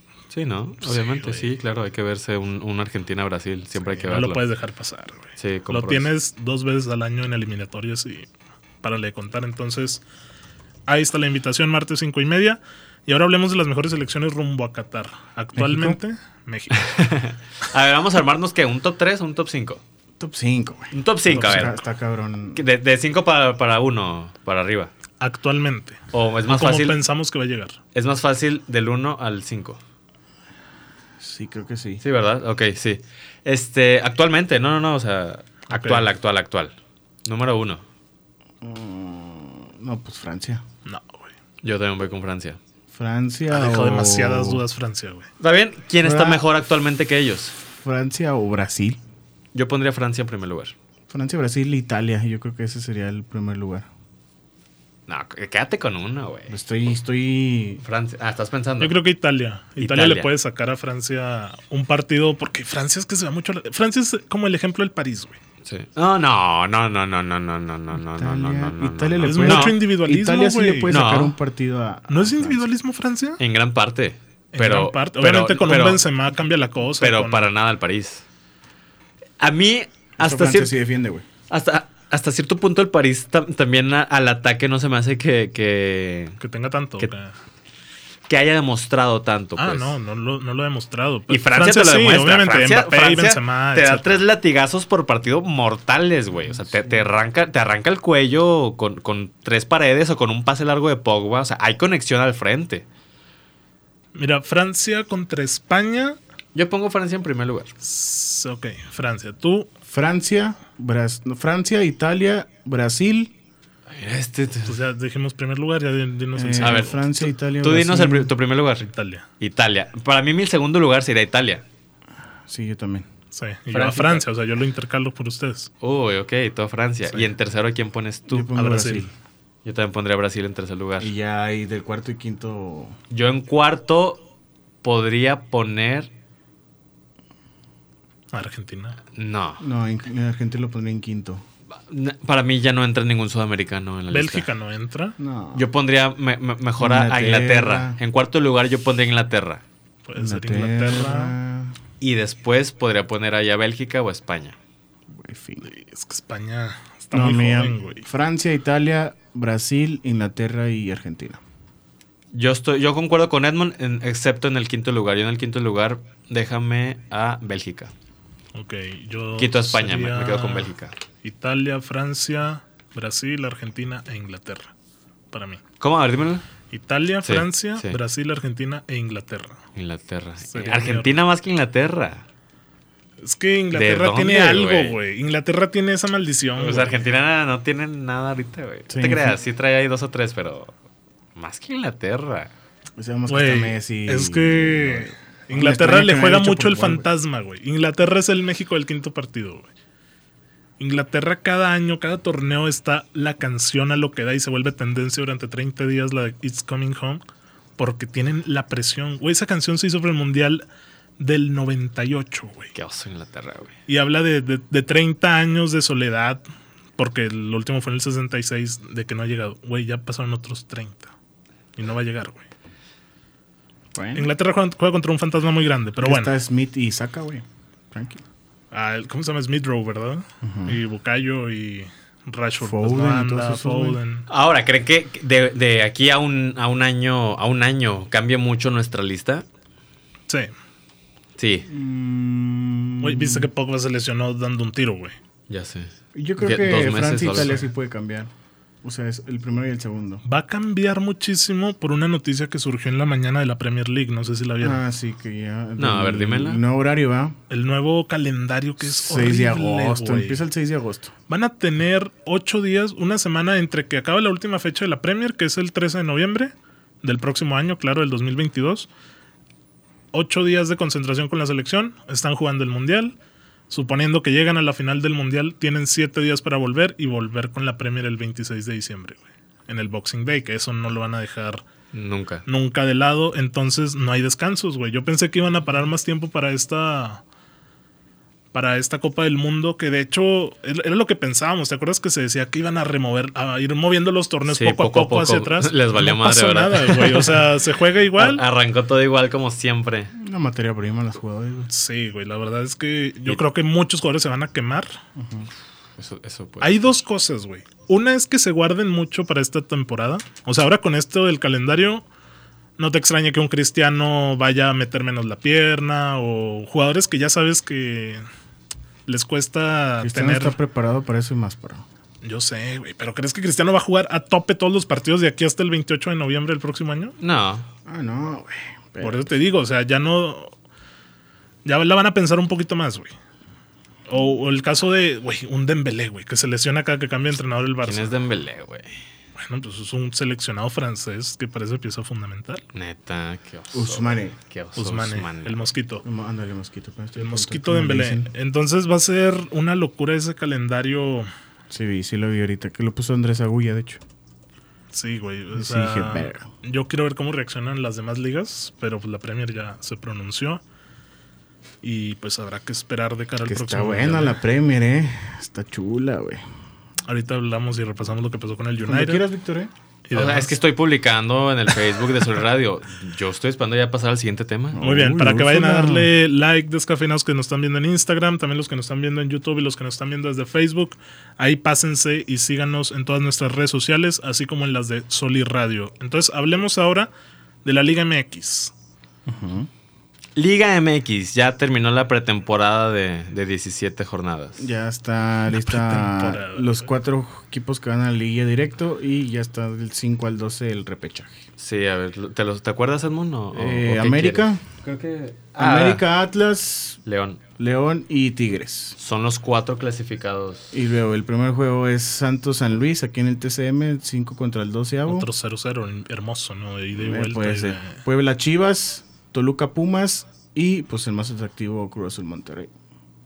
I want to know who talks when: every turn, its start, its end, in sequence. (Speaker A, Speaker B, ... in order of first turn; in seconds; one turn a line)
Speaker A: 0.3-4.4
Speaker B: 0.8-1.5
Speaker B: 4.0-8.3
Speaker A: 5.4-6.1
Speaker B: 8.8-10.0
Speaker B: 10.9-16.9
Speaker C: 15.5-16.0
Speaker A: 16.7-19.8
Speaker C: 20.2-22.6
Speaker A: 20.9-21.8
Speaker B: 21.4-21.7
Speaker A: 22.5-24.9
Speaker B: 25.2-27.8
Speaker A: 26.1-27.0
Speaker A: 27.9-29.8
Speaker C: 31.2-32.0
Speaker A: 32.0-36.7
Speaker B: 35.7-36.1
Speaker A: 37.2-37.8
Speaker C: 38.6-40.6
Speaker B: 40.9-41.3
Speaker A: 41.6-42.6
Speaker C: 42.9-44.6
Speaker B: 43.5-45.3
Speaker A: 45.4-47.5
Speaker C: 46.0-46.4
Speaker C: 47.6-49.0
Speaker A: 49.5-50.7
Speaker C: 51.1-53.9
Speaker A: 55.1-56.5
Speaker C: 56.5-57.8
Speaker A: 57.8-59.0
Speaker B: 58.8-65.4
Speaker A: 59.8-60.3
Speaker A: 65.6-69.8
Speaker C: 68.0-72.7
Speaker B: 69.2-71.0
Speaker A: 70.9-71.3
Speaker B: 72.1-73.4
Speaker A: 73.4-76.0
Speaker B: 74.5-77.5
Speaker A: 77.0-78.2
Speaker A: 79.4-80.7
Speaker C: 80.2-81.2
Speaker A: 81.5-86.4
Speaker B: 86.4-87.3
Speaker A: 88.3-89.9
Speaker B: 89.6-94.2
Speaker A: 91.3-102.8
Speaker B: 96.8-97.0
Speaker B: 104.1-106.2
Speaker A: 106.5-107.7
Speaker B: 107.8-109.7
Speaker C: 109.9-113.3
Speaker A: 113.9-114.8
Speaker B: 114.6-117.0
Speaker C: 116.3-118.3
Speaker A: 116.6-118.8
Speaker B: 118.8-119.2
Speaker A: 119.4-121.6
Speaker C: 122.5-123.1
Speaker B: 123.3-125.7
Speaker A: 123.7-124.2
Speaker A: 125.8-128.5
Speaker C: 128.3-129.1
Speaker B: 128.6-129.1
Speaker A: 129.6-131.1
Speaker C: 131.0-132.9
Speaker A: 133.1-134.2
Speaker A: 134.8-136.1
Speaker B: 138.3-139.0
Speaker A: 139.1-139.6
Speaker C: 139.6-141.4
Speaker A: 141.9-144.5
Speaker B: 144.1-145.2
Speaker C: 145.2-145.7
Speaker A: 145.5-149.6
Speaker C: 146.8-148.0
Speaker B: 150.1-151.3
Speaker C: 150.1-151.8
Speaker A: 152.0-154.6
Speaker C: 155.1-155.6
Speaker B: 155.6-158.0
Speaker C: 157.1-161.4
Speaker A: 162.3-167.9
Speaker B: 168.5-170.7
Speaker A: 169.4-170.9
Speaker B: 171.2-174.7
Speaker B: 175.3-175.6
Speaker A: 175.8-176.4
Speaker B: 176.7-179.6
Speaker A: 177.2-178.0
Speaker A: 179.7-182.2
Speaker B: 180.5-181.2
Speaker B: 183.2-187.0
Speaker A: 183.7-185.0
Speaker A: 186.6-190.7
Speaker C: 188.9-189.4
Speaker A: 191.3-192.5
Speaker C: 193.0-197.1
Speaker B: 193.3-199.7
Speaker B: 200.8-207.2
Speaker B: 207.8-210.6
Speaker B: 211.2-212.7
Speaker A: 212.7-213.7
Speaker B: 213.9-216.4
Speaker B: 217.0-221.1
Speaker B: 221.8-222.4
Speaker C: 223.9-224.3
Speaker B: 224.1-226.3
Speaker C: 226.0-228.2
Speaker B: 228.7-234.2
Speaker C: 230.4-230.8
Speaker C: 232.6-234.0
Speaker A: 234.3-239.4
Speaker A: 241.4-241.7
Speaker C: 241.7-243.5
Speaker B: 243.0-245.2
Speaker A: 245.5-247.5
Speaker C: 246.1-248.3
Speaker B: 247.3-247.6
Speaker C: 248.8-250.2
Speaker B: 250.2-254.8
Speaker C: 254.6-257.4
Speaker A: 255.8-256.6
Speaker B: 257.5-260.4
Speaker C: 258.8-261.1
Speaker B: 261.3-268.9
Speaker B: 270.1-273.1
Speaker B: 273.7-281.6
Speaker A: 281.9-282.4
Speaker B: 282.4-287.2
Speaker B: 288.5-298.4
Speaker A: 294.5-297.5
Speaker A: 298.1-300.1
Speaker C: 300.1-301.7
Speaker B: 301.7-304.9
Speaker C: 305.1-305.5
Speaker A: 306.0-306.9
Speaker B: 306.6-312.0
Speaker B: 312.8-318.2
Speaker B: 319.1-320.6
Speaker C: 320.0-321.8
Speaker B: 322.2-327.1
Speaker A: 327.2-327.7
Speaker C: 327.9-329.4
Speaker B: 329.0-330.5
Speaker B: 331.6-333.1
Speaker B: 334.1-338.1
Speaker A: 337.8-338.9
Speaker B: 339.4-342.6
Speaker A: 342.7-345.6
Speaker C: 343.7-344.4
Speaker B: 344.8-346.0
Speaker C: 346.0-348.3
Speaker B: 347.1-351.3
Speaker C: 351.7-354.0
Speaker B: 354.9-360.6
Speaker C: 355.5-356.5
Speaker B: 361.8-364.4
Speaker C: 363.4-366.4
Speaker B: 367.1-369.2
Speaker C: 368.8-369.7
Speaker B: 370.1-370.5
Speaker A: 370.1-374.8
Speaker C: 374.7-376.1
Speaker B: 374.8-387.1
Speaker B: 387.6-388.7
Speaker C: 389.2-389.7
Speaker A: 390.4-394.6
Speaker C: 394.6-401.4
Speaker B: 395.5-396.9
Speaker A: 401.6-406.0
Speaker C: 403.5-404.6
Speaker C: 405.6-407.0
Speaker A: 407.1-407.4
Speaker C: 407.6-409.0
Speaker A: 409.0-410.8
Speaker C: 410.7-415.3
Speaker B: 415.1-418.0
Speaker C: 416.9-422.7